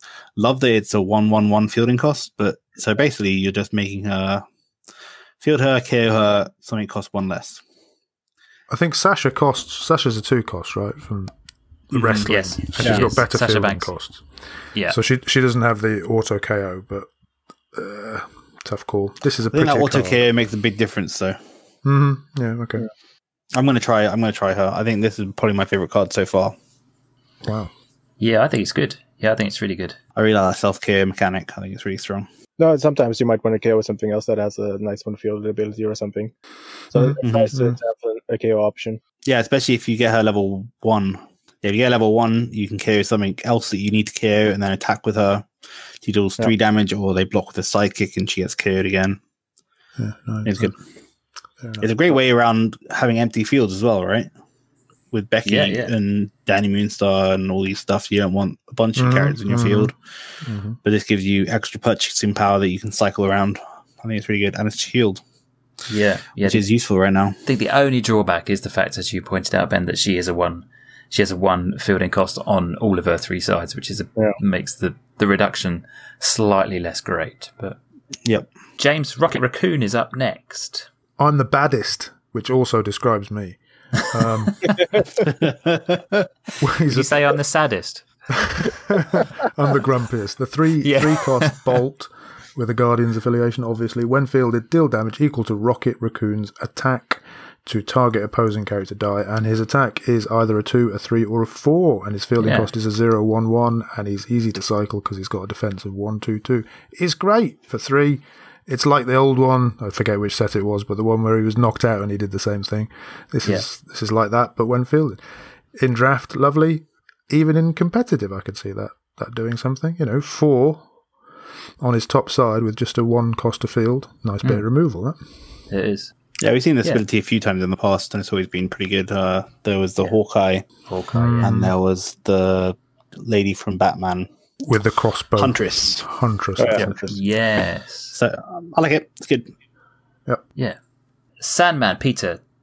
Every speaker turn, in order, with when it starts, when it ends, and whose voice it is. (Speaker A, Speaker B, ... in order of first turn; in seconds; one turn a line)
Speaker A: 0.4-4.4
Speaker A: 5.4-7.6
Speaker B: 8.7-11.3
Speaker B: 11.9-14.2
Speaker C: 11.9-13.9
Speaker D: 12.8-13.0
Speaker B: 14.9-17.1
Speaker B: 17.7-20.3
Speaker A: 19.5-21.4
Speaker B: 21.8-22.9
Speaker A: 23.5-26.5
Speaker B: 27.4-27.7
Speaker C: 28.2-30.0
Speaker A: 30.1-32.3
Speaker D: 32.6-36.3
Speaker D: 36.9-39.0
Speaker B: 37.0-37.7
Speaker A: 37.2-37.6
Speaker A: 39.2-45.5
Speaker A: 46.0-49.2
Speaker B: 50.0-50.7
Speaker A: 50.4-50.8
Speaker B: 51.6-51.9
Speaker A: 51.8-54.3
Speaker A: 55.1-60.0
Speaker C: 55.4-55.9
Speaker B: 59.0-60.8
Speaker A: 60.8-65.2
Speaker C: 65.9-66.6
Speaker A: 66.4-67.4
Speaker C: 67.4-77.8
Speaker C: 78.8-80.9
Speaker B: 81.2-84.8
Speaker A: 85.3-86.2
Speaker B: 86.6-87.2
Speaker C: 86.9-88.0
Speaker B: 88.3-115.2
Speaker C: 90.8-91.6
Speaker C: 102.4-102.7
Speaker B: 115.7-120.8
Speaker B: 121.8-125.2
Speaker C: 125.7-126.1
Speaker A: 126.4-130.7
Speaker C: 130.9-131.6
Speaker B: 131.1-131.7
Speaker A: 131.4-134.3
Speaker B: 134.6-137.1
Speaker A: 135.4-136.1
Speaker D: 136.6-137.1
Speaker C: 137.1-138.2
Speaker A: 138.1-139.5
Speaker C: 141.4-142.4